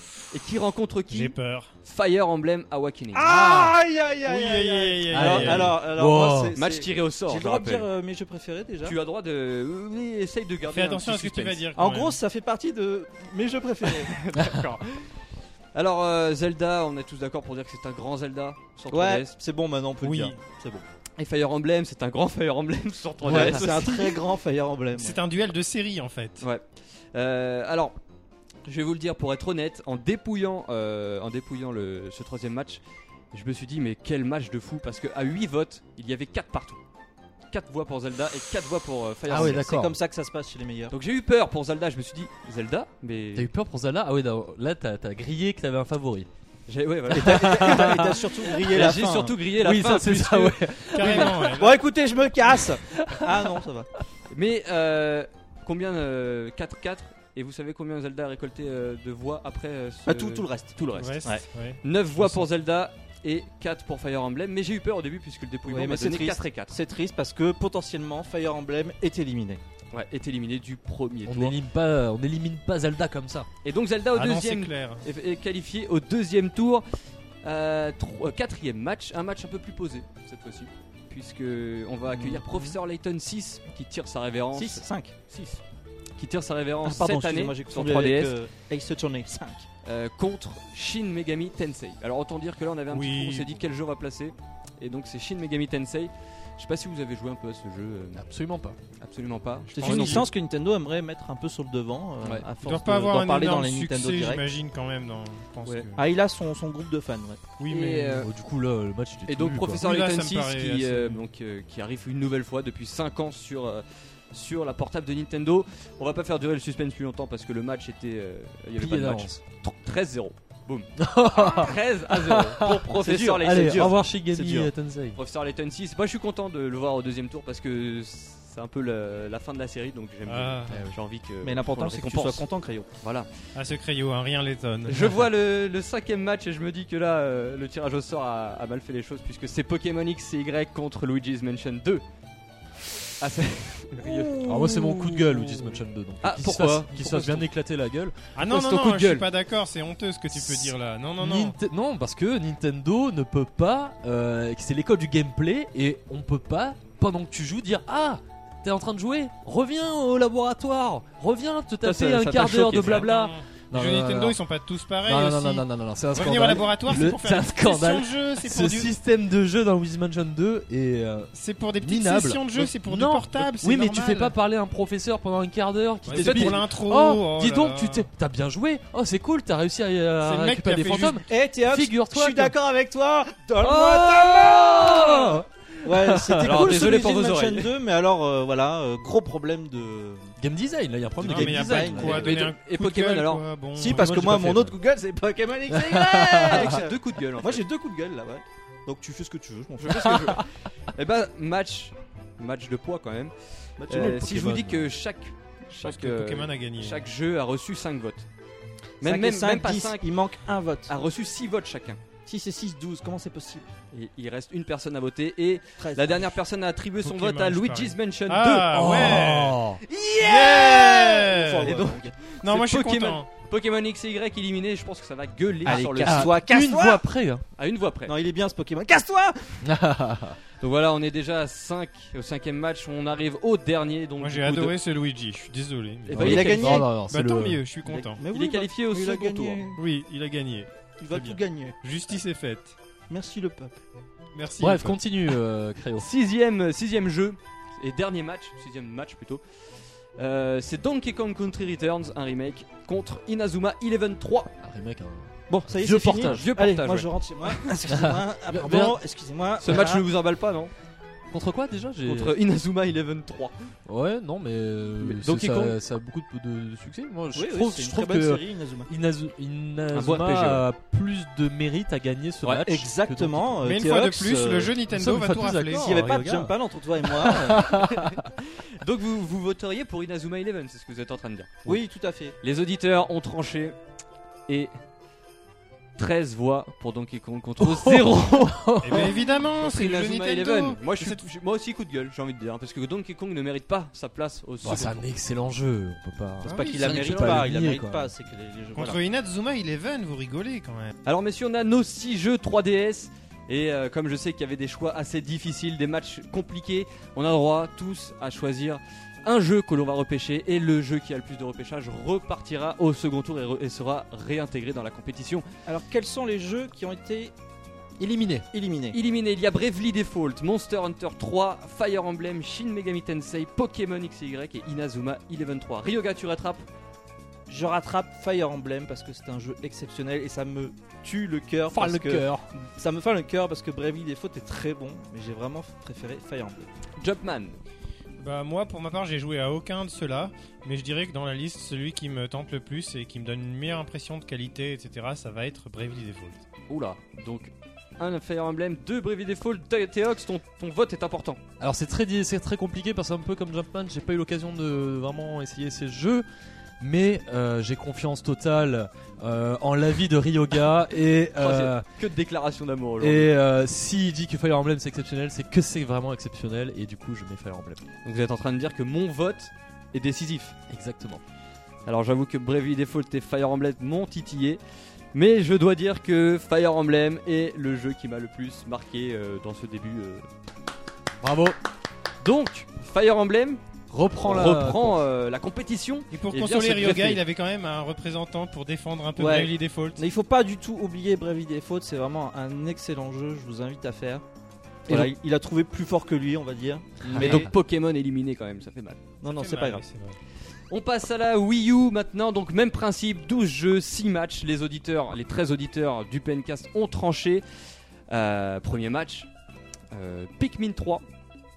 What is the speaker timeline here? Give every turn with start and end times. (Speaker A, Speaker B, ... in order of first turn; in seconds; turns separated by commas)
Speaker A: 0.3-3.2, Speaker B: 1.1-1.7, Speaker C: 3.1-9.0, Speaker D: 3.2-3.8, Speaker B: 4.2-5.7, Speaker D: 5.1-6.5, Speaker A: 5.2-5.5, Speaker A: 6.6-7.9, Speaker A: 8.8-11.7, Speaker B: 10.7-12.2, Speaker C: 11.7-14.1, Speaker A: 13.8-15.1, Speaker A: 15.7-19.3, Speaker C: 18.9-20.8, Speaker B: 20.0-20.4, Speaker A: 21.2-24.2, Speaker D: 23.2-23.7, Speaker C: 23.2-25.2, Speaker B: 24.9-26.4, Speaker A: 26.4-27.9, Speaker A: 28.6-32.8, Speaker A: 33.3-36.8, Speaker A: 37.5-39.7, Speaker D: 39.3-40.0, Speaker C: 39.3-40.9, Speaker A: 40.9-43.5, Speaker D: 43.3-46.3, Speaker A: 46.7-51.5, Speaker C: 47.1-49.4, Speaker D: 47.1-48.2, Speaker D: 49.5-51.5, Speaker B: 50.9-51.8, Speaker C: 51.5-53.9, Speaker D: 52.6-53.5, Speaker A: 54.3-66.8, Speaker C: 60.0-61.4, Speaker B: 60.9-62.4, Speaker C: 65.7-69.6, Speaker A: 69.9-71.5, Speaker D: 71.2-73.5, Speaker A: 73.6-76.8, Speaker B: 74.1-75.0, Speaker A: 77.4-85.6, Speaker C: 82.1-82.7, Speaker C: 84.5-85.2, Speaker A: 86.2-88.3, Speaker C: 86.8-89.7, Speaker A: 89.8-98.2, Speaker B: 92.9-93.5, Speaker D: 98.1-98.8, Speaker A: 99.0-100.3, Speaker B: 99.7-100.3, Speaker C: 99.8-104.4, Speaker B: 102.6-106.0, Speaker C: 106.0-107.4, Speaker B: 107.6-108.3, Speaker A: 107.7-108.3, Speaker D: 108.1-109.8, Speaker A: 109.3-132.4, Speaker B: 109.7-111.2, Speaker D: 118.8-119.4, Speaker D: 121.0-125.2, Speaker C: 123.6-124.6, Speaker B: 130.3-130.8, Speaker D: 130.7-131.0, Speaker C: 131.4-132.9, Speaker A: 133.0-133.3, Speaker B: 133.5-135.2, Speaker A: 134.8-142.0, Speaker A: 143.0-145.6, Speaker D: 144.4-148.3, Speaker A: 146.2-147.5, Speaker B: 148.3-151.6, Speaker A: 148.4-149.3, Speaker D: 150.3-164.4, Speaker A: 161.8-163.1, Speaker B: 162.7-168.9, Speaker D: 165.0-182.5, Speaker B: 171.3-174.3, Speaker B: 176.0-178.1, Speaker A: 176.1-176.6, Speaker B: 180.2-181.2, Speaker C: 181.3-190.3, Speaker A: 183.6-185.4, Speaker D: 184.8-185.4, Speaker D: 186.0-186.7, Speaker A: 186.4-187.7, Speaker D: 190.4-192.2, Speaker B: 191.2-194.1, Speaker C: 191.2-192.5, Speaker A: 192.0-193.4, Speaker C: 193.8-200.4, Speaker D: 193.8-194.8, Speaker D: 195.7-196.7, Speaker A: 196.2-197.6, Speaker A: 199.8-208.3, Speaker C: 203.8-204.5, Speaker D: 203.9-204.9, Speaker B: 205.8-207.0, Speaker A: 209.0-210.0, Speaker C: 209.0-210.9, Speaker A: 210.9-212.0, Speaker C: 212.2-213.7, Speaker A: 213.9-219.2, Speaker C: 215.8-216.4, Speaker B: 217.0-219.6, Speaker D: 218.7-219.8, Speaker A: 219.9-221.0, Speaker C: 220.1-222.1, Speaker B: 220.2-221.7, Speaker A: 221.6-226.4, Speaker B: 222.4-223.2, Speaker C: 225.6-227.0, Speaker D: 225.6-227.4, Speaker A: 227.6-228.1, Speaker C: 228.1-229.6, Speaker D: 229.6-230.4, Speaker A: 230.6-234.8, Speaker B: 234.2-238.2, Speaker A: 236.1-236.8, Speaker D: 236.1-237.6, Speaker C: 236.2-236.9, Speaker A: 237.8-239.6, Speaker C: 238.1-239.8, Speaker B: 239.8-242.7, Speaker C: 241.0-241.8, Speaker C: 243.1-243.8, Speaker B: 244.3-245.0, Speaker D: 244.6-246.1, Speaker A: 246.0-249.4, Speaker A: 250.2-254.5, Speaker D: 254.6-256.5, Speaker C: 255.5-260.0, Speaker A: 256.2-257.7, Speaker D: 257.9-259.0, Speaker A: 259.6-260.7, Speaker D: 261.3-262.4, Speaker A: 262.0-263.7, Speaker D: 263.9-273.6, Speaker A: 265.0-265.8, Speaker C: 267.3-268.9, Speaker A: 269.9-270.6, Speaker C: 272.6-274.7, Speaker B: 273.6-275.9, Speaker D: 274.9-278.2, Speaker C: 275.7-277.7, Speaker A: 277.8-281.8, Speaker C: 281.6-282.4, Speaker A: 282.4-283.7, Speaker A: 286.0-295.0, Speaker D: 287.6-289.1, Speaker B: 288.8-291.2, Speaker D: 294.6-298.1, Speaker C: 296.4-299.0, Speaker B: 296.4-296.9, Speaker A: 297.0-297.4, Speaker B: 298.8-300.9, Speaker A: 301.1-315.4, Speaker C: 315.6-317.3, Speaker D: 318.0-318.5, Speaker C: 318.5-319.0, Speaker A: 318.9-326.6, Speaker C: 327.5-336.7, Speaker D: 331.7-332.5, Speaker A: 337.0-337.6, Speaker B: 338.2-346.4, Speaker A: 346.7-351.4, Speaker D: 351.6-356.2, Speaker D: 356.8-361.9, Speaker A: 361.4-363.3, Speaker D: 363.0-367.8, Speaker A: 368.0-370.5, Speaker D: 370.7-371.2, Speaker A: 371.9-374.6, Speaker A: 375.1-380.2, Speaker D: 381.2-381.6, Speaker A: 382.2-383.6, Speaker D: 383.9-385.0, Speaker A: 384.2-387.2, Speaker B: 386.1-390.0, Speaker C: 389.1-394.2, Speaker C: 394.9-397.5, Speaker D: 397.0-397.5, Speaker A: 397.1-399.0, Speaker C: 399.2-399.8, Speaker B: 399.2-400.2, Speaker A: 400.7-407.4, Speaker A: 408.1-409.3, Speaker A: 409.9-411.0